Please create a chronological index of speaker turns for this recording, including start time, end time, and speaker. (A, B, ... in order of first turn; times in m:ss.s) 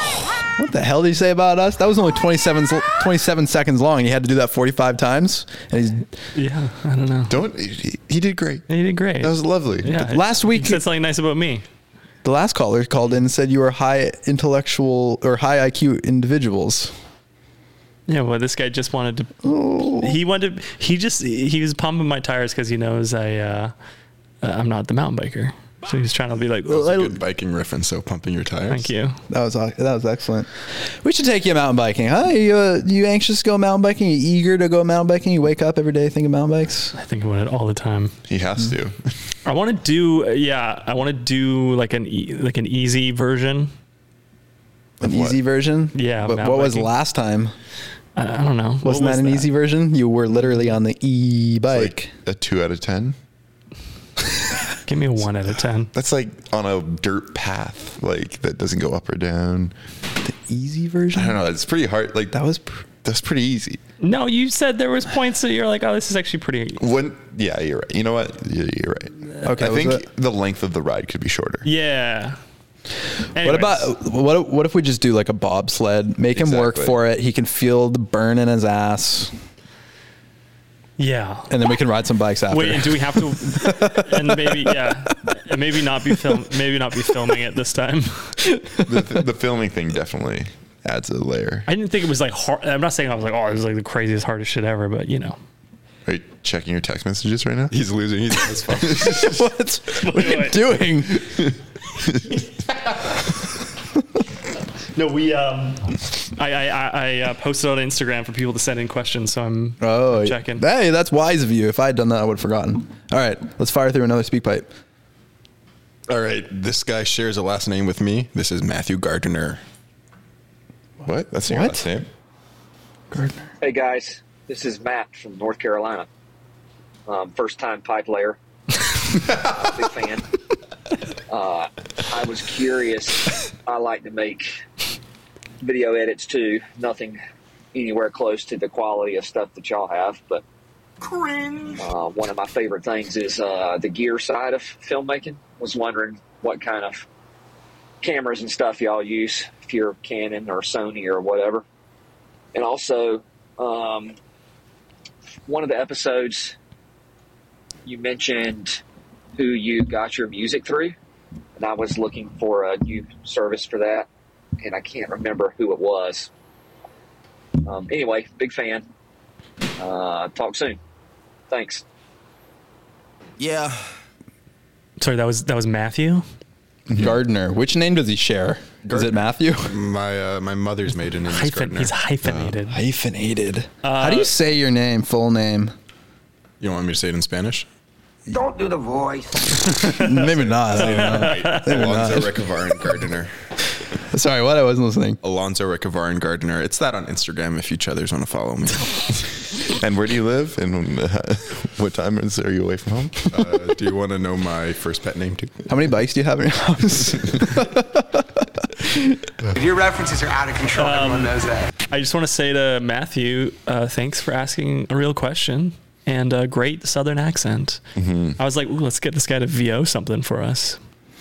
0:00.5-0:06.0 A
0:06.3-0:07.4 B
0:07.3-0:08.6 C
0:08.7-0:11.6 B
0:09.2-0:09.9 C
0:09.9-0:10.8 A
0:12.2-0:16.9 A
0:18.1-0:23.7 B
0:19.4-0:20.2 A
0:24.4-0:27.1 B
0:26.7-0:28.9 D
0:28.7-0:29.2 B
0:29.3-0:30.5 A
0:31.0-0:36.9 A
0:37.0-0:38.1 B
0:38.3-0:39.1 C
0:39.4-0:43.7 B
0:45.0-0:45.4 C
0:45.0-0:47.5 A
0:45.9-0:46.9 B
0:48.2-0:49.5 B
0:48.8-0:52.1 A
0:51.7-0:53.2 C
0:54.8-0:55.9 B
0:55.9-0:59.7 C
1:00.2-1:01.4 A
1:01.1-1:02.4 C
1:02.3-1:02.8 A
1:03.0-1:03.8 C
1:04.0-1:06.8 B
1:06.8-1:11.6 C
1:09.4-1:10.0 A
1:11.6-1:12.4 B
1:13.3-1:13.9 B
1:13.4-1:19.3 A
1:16.3-1:17.0 C
1:21.0-1:21.5 B
1:21.5-1:24.9 A
1:22.5-1:28.4 B
1:28.8-1:31.7 C
1:31.6-1:35.4 B
1:36.0-1:37.7 C
1:37.7-1:39.3 D
1:38.9-1:39.2 C
1:39.0-1:41.2 A
1:40.0-1:40.6 B
1:44.9-1:50.6 B
1:49.8-1:54.7 A
1:56.1-1:59.6 D
2:01.0-2:02.1 C
2:01.4-2:01.8 A
2:03.1-2:03.5 A
2:03.6-2:06.1 E
2:07.0-2:08.4 E
2:09.4-2:10.2 E
2:11.3-2:14.5 E
2:15.6-2:17.2 E
2:17.7-2:20.4 E
2:21.0-2:21.8 F
2:21.8-2:27.0 E
2:28.0-2:31.6 E
2:32.5-2:34.2 E
2:35.5-2:36.5 E
2:37.8-2:38.8 E
2:39.4-2:40.9 E
2:41.6-2:44.1 E
2:44.6-2:46.3 E
2:47.6-2:48.8 E
2:49.8-2:50.8 E
2:51.5-2:51.8 E
2:53.4-2:53.8 F
2:55.0-2:56.2 B
2:56.9-2:59.7 A
2:59.6-3:02.5 D
3:01.3-3:02.8 B
3:02.7-3:05.7 A
3:03.8-3:04.3 B
3:06.6-3:07.6 D
3:08.3-3:09.8 F
3:09.8-3:11.8 B
3:09.9-3:12.5 A
3:10.6-3:13.3 D
3:14.1-3:15.2 A
3:15.2-3:19.2 D
3:19.7-3:23.4 C
3:23.3-3:25.5 D
3:25.7-3:29.2 A
3:29.5-3:31.7 F
3:30.7-3:37.8 B
3:38.0-3:38.4 C
3:38.4-3:40.8 B